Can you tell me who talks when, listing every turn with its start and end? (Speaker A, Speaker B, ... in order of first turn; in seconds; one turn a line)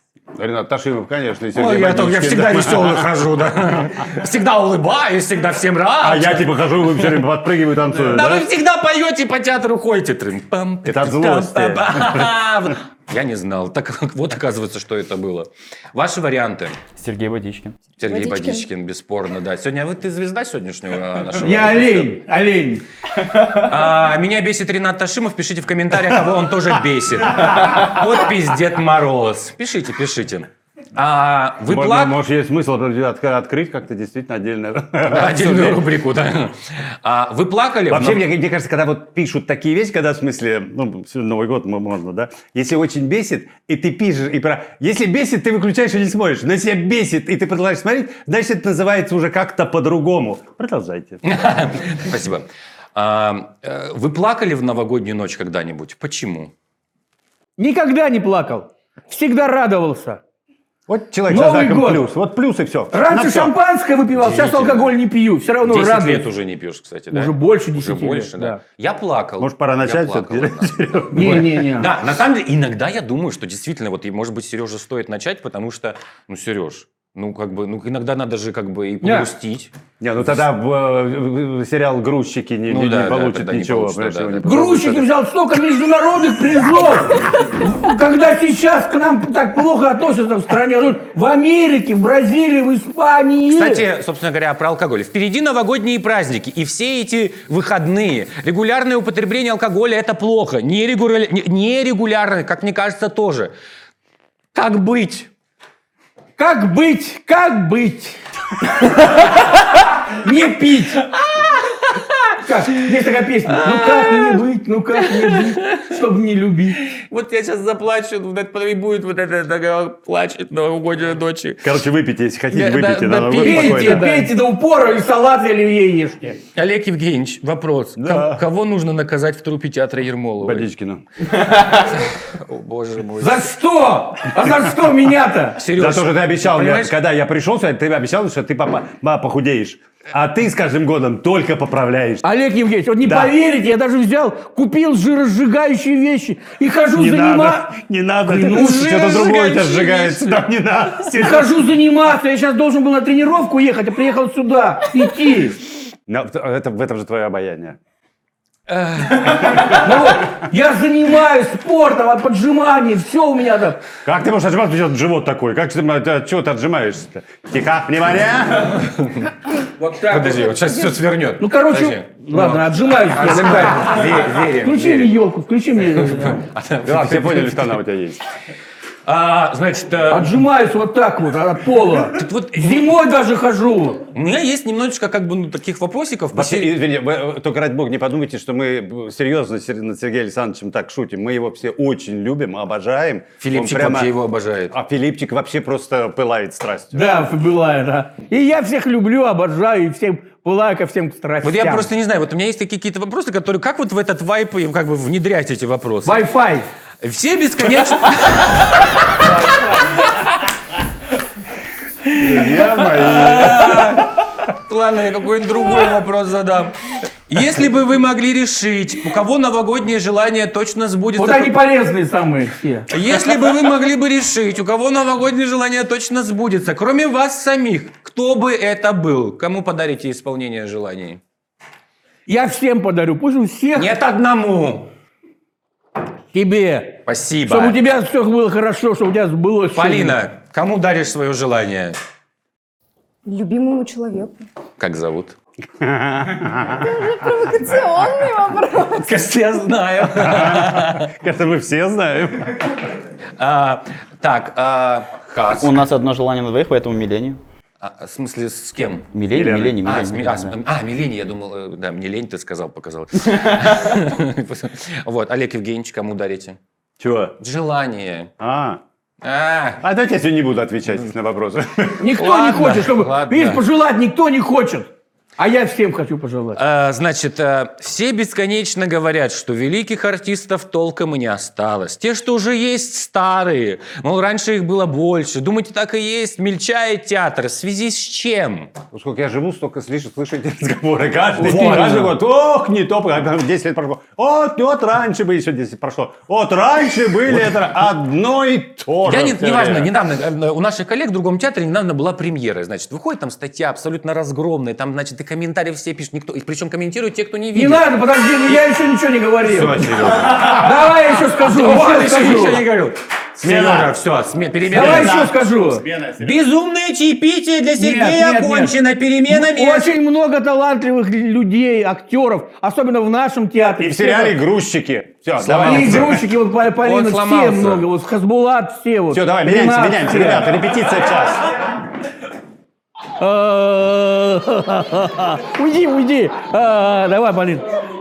Speaker A: 0.4-3.0
Speaker B: 1.5-7.1
Speaker A: 6.0-8.5
Speaker B: 8.0-16.8
Speaker A: 10.8-12.3
Speaker B: 18.0-22.2
Speaker C: 18.0-18.7
Speaker D: 21.4-22.8
Speaker B: 23.6-32.1
Speaker A: 31.6-35.9
Speaker B: 35.1-38.2
Speaker A: 37.9-51.2
Speaker B: 51.2-56.5
Speaker D: 57.6-60.2
Speaker A: 60.9-63.5
Speaker D: 61.3-62.1
Speaker D: 62.9-66.3
Speaker B: 64.1-65.0
Speaker B: 65.6-79.7
Speaker D: 67.1-68.6
Speaker A: 69.4-71.7
Speaker D: 71.1-71.9
Speaker D: 79.0-79.3
Speaker A: 80.0-85.1
Speaker B: 82.7-84.5
Speaker D: 84.4-93.8
Speaker B: 93.5-103.5
Speaker B: 104.5-105.3
Speaker D: 106.4-108.2
Speaker D: 108.9-109.2
Speaker D: 110.2-111.0
Speaker B: 111.1-112.3
Speaker D: 112.4-116.8
Speaker B: 113.5-115.9
Speaker B: 116.7-121.8
Speaker A: 121.6-124.2
Speaker B: 122.5-124.3
Speaker D: 123.4-126.4
Speaker B: 126.5-130.7
Speaker A: 128.0-128.4
Speaker A: 130.4-131.0
Speaker B: 131.5-133.5
Speaker D: 133.2-135.6
Speaker B: 135.6-136.9
Speaker A: 135.7-142.2
Speaker D: 142.2-149.4
Speaker A: 143.0-143.3
Speaker A: 146.9-151.7
Speaker B: 149.0-150.4
Speaker D: 151.1-155.6
Speaker A: 156.1-157.8
Speaker B: 158.7-159.8
Speaker D: 159.7-163.8
Speaker A: 164.0-168.8
Speaker D: 169.8-170.5
Speaker B: 169.9-175.1
Speaker D: 171.4-176.4
Speaker B: 175.8-177.8
Speaker A: 176.8-178.2
Speaker B: 179.1-180.4
Speaker D: 180.1-184.0
Speaker B: 182.1-182.9
Speaker B: 184.1-186.7
Speaker A: 186.3-194.1
Speaker B: 193.4-194.7
Speaker A: 194.7-197.2
Speaker D: 196.9-201.9
Speaker B: 201.4-206.2
Speaker D: 206.0-206.7
Speaker B: 207.0-209.3
Speaker B: 212.1-216.7
Speaker A: 212.2-213.9
Speaker B: 217.3-221.6
Speaker D: 221.2-222.9
Speaker B: 222.9-231.2
Speaker D: 232.3-233.9
Speaker B: 233.7-234.9
Speaker D: 236.3-240.2
Speaker B: 237.1-237.8
Speaker B: 239.7-242.0
Speaker C: 243.2-244.4
Speaker B: 244.8-245.3
Speaker A: 245.8-246.8
Speaker C: 246.8-249.3
Speaker B: 249.0-251.1
Speaker A: 250.2-252.6
Speaker B: 253.4-255.8
Speaker E: 255.6-257.4
Speaker B: 257.8-259.1
Speaker E: 259.2-260.5
Speaker A: 259.3-259.8
Speaker B: 259.8-266.6
Speaker A: 267.0-267.3
Speaker B: 267.4-268.3
Speaker A: 268.4-268.8
Speaker B: 269.2-269.8
Speaker A: 269.8-272.1
Speaker D: 272.0-276.6
Speaker B: 272.1-273.6
Speaker B: 276.6-288.7
Speaker A: 288.9-299.9
Speaker D: 291.4-292.1
Speaker B: 299.0-307.9
Speaker D: 307.5-312.6
Speaker A: 309.4-310.7
Speaker B: 309.8-315.3
Speaker A: 313.4-314.0
Speaker A: 314.6-316.4
Speaker D: 314.7-315.9
Speaker B: 316.2-319.9
Speaker D: 317.8-318.7
Speaker D: 319.3-324.4
Speaker A: 323.8-326.3
Speaker B: 325.4-326.2
Speaker D: 325.5-330.6
Speaker B: 326.8-327.9
Speaker A: 329.1-331.5
Speaker D: 333.2-337.7